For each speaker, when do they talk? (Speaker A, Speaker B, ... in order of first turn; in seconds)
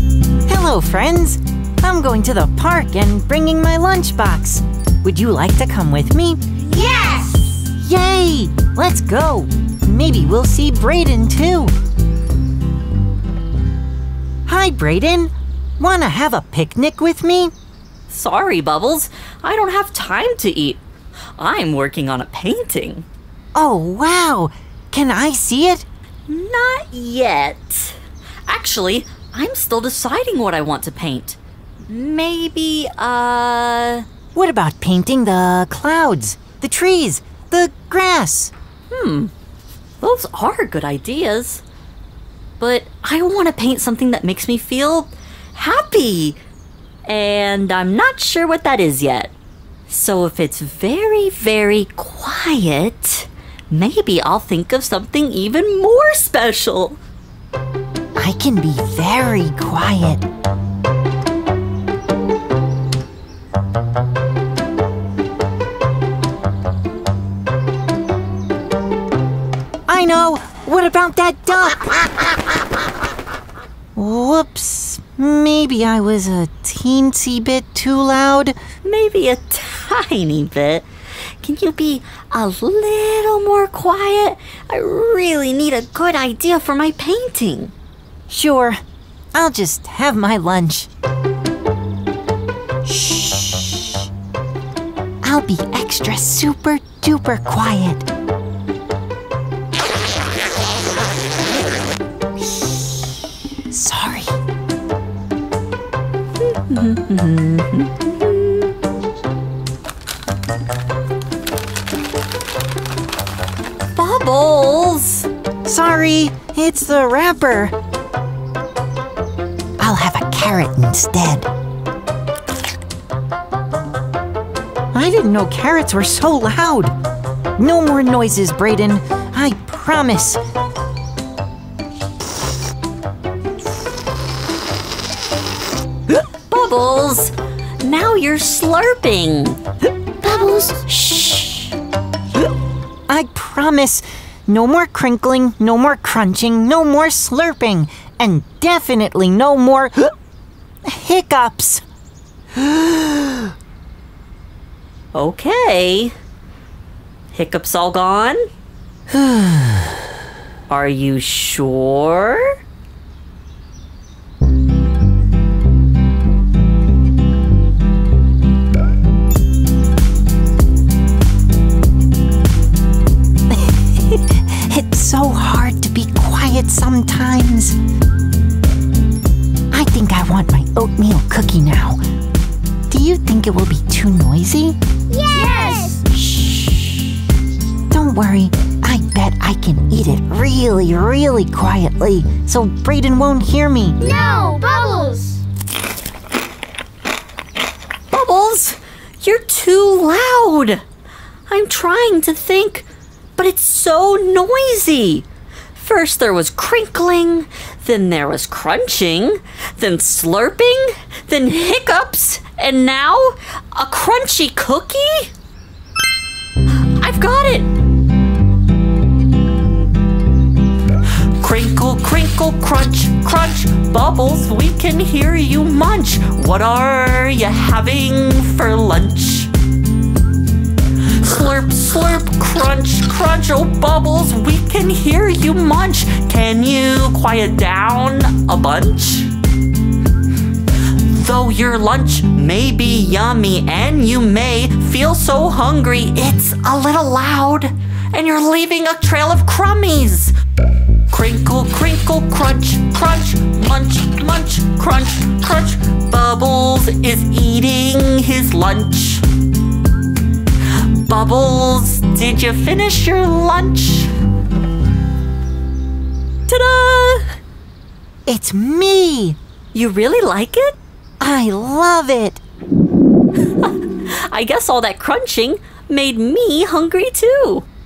Speaker A: 0.5-6.4, 7.6-11.7, 14.5-17.5, 23.6-25.9, 34.4-38.5, 58.2-60.2, 69.9-72.4, 74.0-78.6, 88.3-88.8, 89.3-90.9, 92.9-94.1, 95.2-98.1, 103.7-104.4, 115.7-117.7, 119.8-121.5, 124.9-127.0, 127.6-130.4, 143.1-150.1, 150.8-151.8, 159.1-160.0, 173.5-177.8, 179.7-182.0, 182.9-184.8, 187.9-194.0, 268.3-269.4, 271.2-272.4
Speaker B: 6.8-7.5, 185.1-186.0, 194.0-195.4
Speaker C: 18.1-20.8, 21.4-23.1, 26.3-34.1, 38.9-39.3, 40.0-41.6, 42.6-46.4, 47.1-49.3, 49.9-57.0, 78.8-80.9, 81.4-87.7, 106.7-108.7, 114.0-115.3, 136.5-139.6, 140.2-141.8, 155.1-156.1, 157.3-158.4, 160.7-162.5, 198.1-200.8, 201.5-215.3, 216.9-217.7, 221.4-229.5, 231.2-239.3, 241.0-250.3, 251.1-259.2, 261.0-264.1, 266.5-267.4, 269.7-270.8, 273.6-277.7